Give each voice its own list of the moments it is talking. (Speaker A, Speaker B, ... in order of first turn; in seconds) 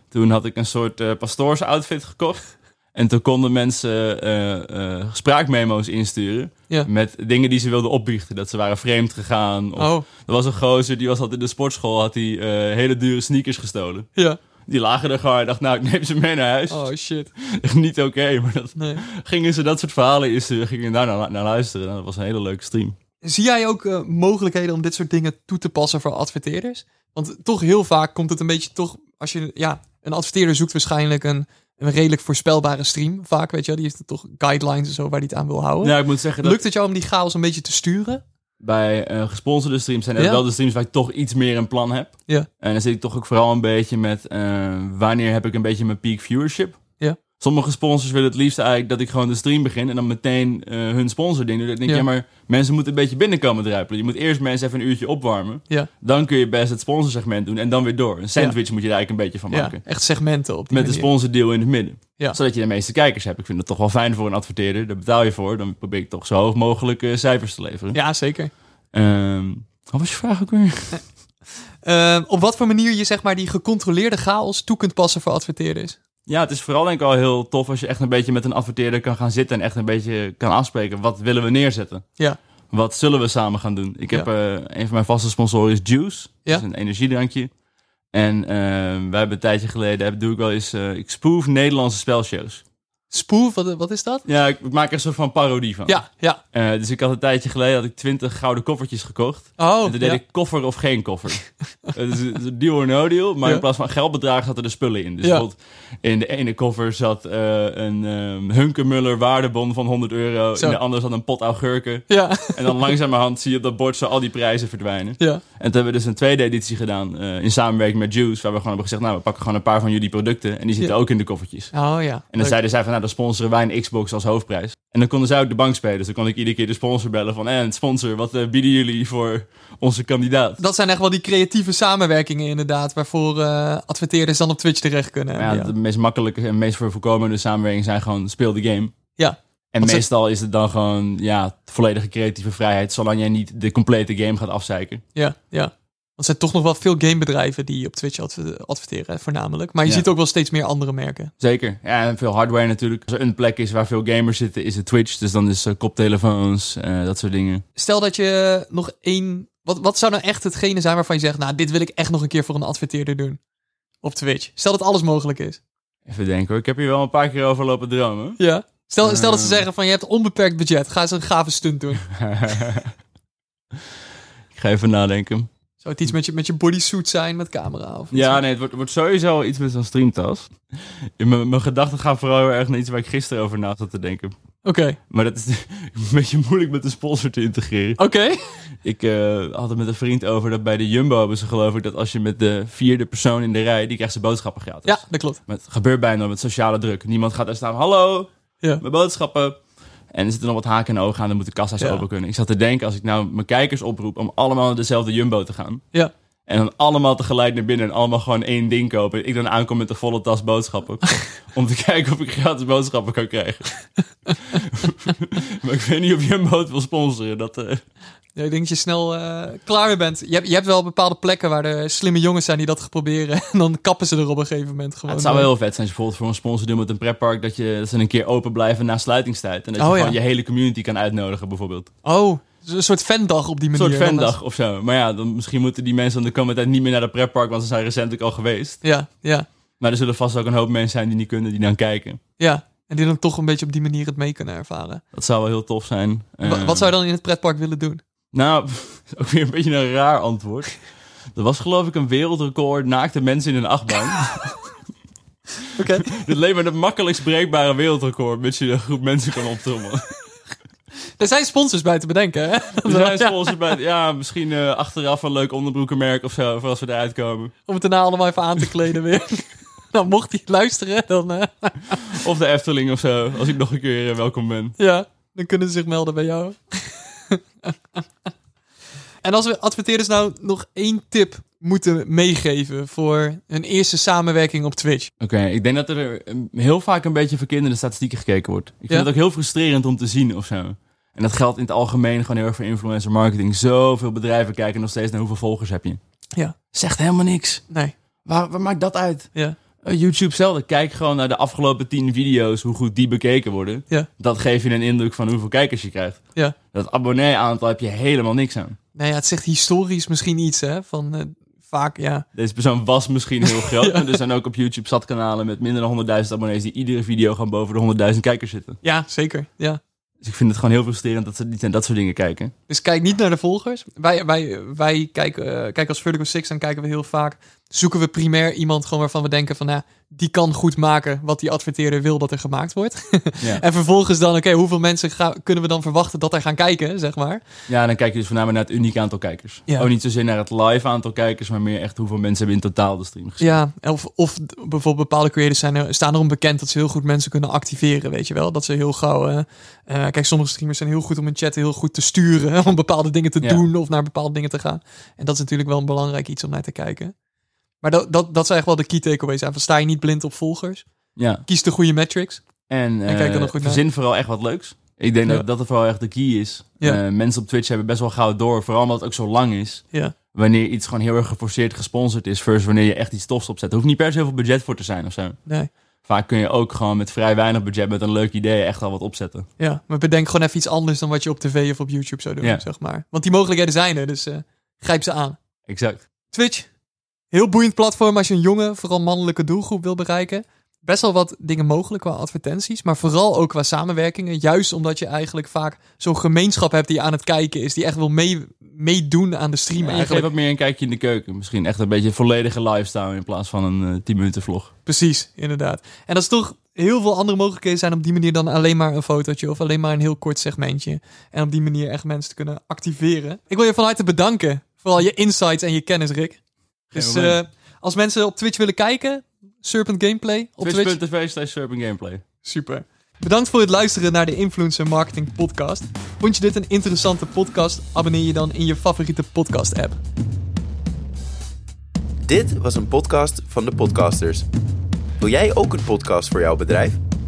Speaker A: 0.1-14.1, 14.7-16.9, 17.4-22.9, 35.8-36.6, 38.6-46.8, 47.4-59.8, 60.7-68.0, 68.9-71.0, 76.3-82.0, 82.7-87.5, 88.1-92.6, 94.3-96.0, 96.5-121.7, 122.3-130.6, 135.4-138.9, 139.7-145.0, 151.4-157.6, 166.1-168.4, 169.0-169.7, 172.1-172.9, 174.5-175.5, 178.1-184.3, 185.1-188.0, 188.8-199.6, 200.1-205.8, 206.5-213.7, 214.3-217.8, 225.1-231.9, 233.8-238.8, 239.8-242.2, 245.1-246.9, 248.3-250.7, 251.3-254.7, 255.8-260.1, 262.8-267.5, 272.1-274.8, 285.2-296.0, 296.7-297.6, 298.2-306.2, 306.7-308.8, 312.4-318.8, 320.2-322.5, 337.7-343.4, 361.2-361.4, 362.7-375.4, 376.1-379.5, 385.7-386.1, 399.8-404.7, 416.9-417.4, 420.6-422.2
Speaker B: 9.8-10.1, 16.7-17.3, 18.8-19.1, 23.2-38.2, 40.2-40.4, 59.5-61.1, 67.9-68.5, 71.8-76.0, 93.1-94.2, 95.9-96.4, 99.6-100.2, 105.2-105.5, 112.1-112.8, 121.7-122.5, 130.6-135.7, 139.2-140.0, 145.2-151.3, 157.8-163.4, 164.0-165.6, 168.4-172.1, 175.8-178.4, 184.6-185.0, 188.0-188.6, 194.8-195.4, 218.3-225.5, 229.8-230.2, 232.0-234.3, 238.8-239.5, 242.4-245.0, 246.4-248.0, 255.8-256.1, 261.2-263.6, 267.7-272.2, 274.8-278.0, 279.2-285.1, 308.9-312.3, 313.6-314.2, 318.8-319.8, 322.7-337.4, 343.4-357.1, 357.8-360.9, 361.5-362.4, 363.1-363.8, 379.6-385.4, 386.3-386.7, 387.3-400.3, 404.9-416.4, 416.9-421.0, 422.4-430.0
Speaker C: 432.2-434.5, 435.2-437.0